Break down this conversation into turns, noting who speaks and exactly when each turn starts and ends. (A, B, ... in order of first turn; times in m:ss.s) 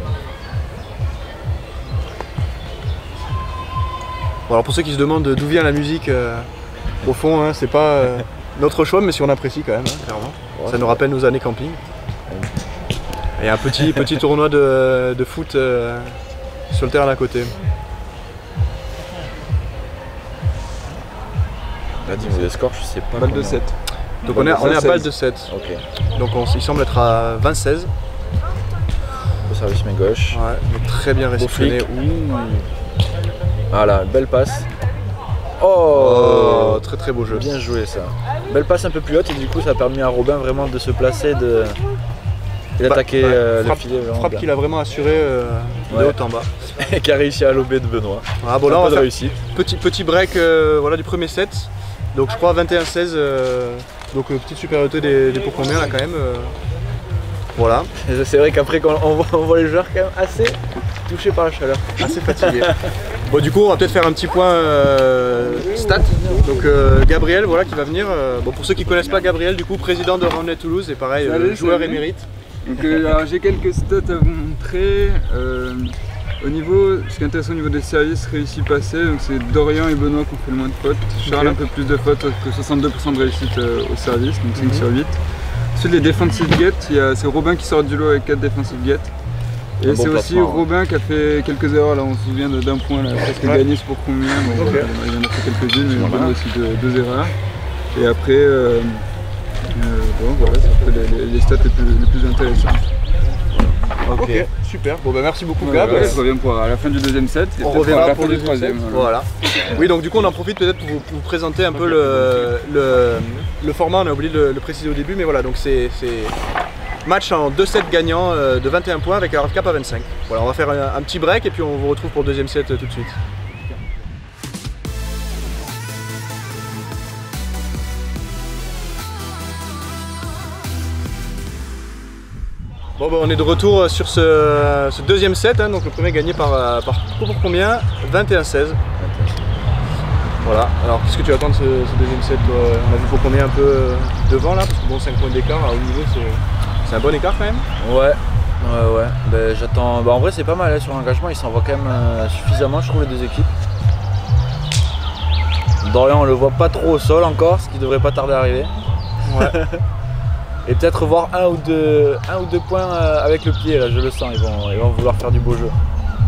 0:04.5-0:06.5 A
0:07.0-0:11.8 A
0:10.5-0:11.0 B
0:13.4-0:16.2 A
0:16.7-0:17.5 A
0:22.0-0:23.6 B
0:23.2-0:23.8 C
0:24.2-0:25.5 A
0:24.3-0:25.8 B
0:26.1-0:27.9 A
0:29.4-0:30.4 B
0:30.3-0:32.7 A
0:31.4-0:31.8 B
0:33.7-0:34.7 B
0:35.6-0:41.8 B
0:35.9-0:37.5 A
0:42.8-0:44.4 B
0:42.8-0:46.5 A
0:45.9-0:46.2 B
0:46.7-0:49.4 B
0:48.4-0:56.6 A
0:57.5-0:57.9 A
0:58.0-1:02.7 B
1:02.0-1:02.7 A
1:03.2-1:12.3 A
1:11.2-1:12.1 C
1:12.6-1:25.2 C
1:21.3-1:21.6 A
1:24.6-1:24.8 A
1:25.7-1:29.1 C
1:29.8-1:37.4 C
1:29.8-1:30.7 B
1:34.5-1:34.9 A
1:37.9-1:39.0 C
1:39.7-1:42.8 C
1:43.6-1:46.2 A
1:44.0-1:44.5 B
1:45.6-1:49.1 C
1:47.6-1:56.4 A
1:51.8-1:52.3 B
1:57.0-2:03.2 A
2:13.0-2:18.8 A
2:19.0-2:19.6 B
2:20.4-2:27.7 A
2:27.8-2:33.5 B
2:35.8-2:38.7 B
2:39.2-2:39.6 A
2:39.4-2:39.8 B
2:40.6-2:45.8 B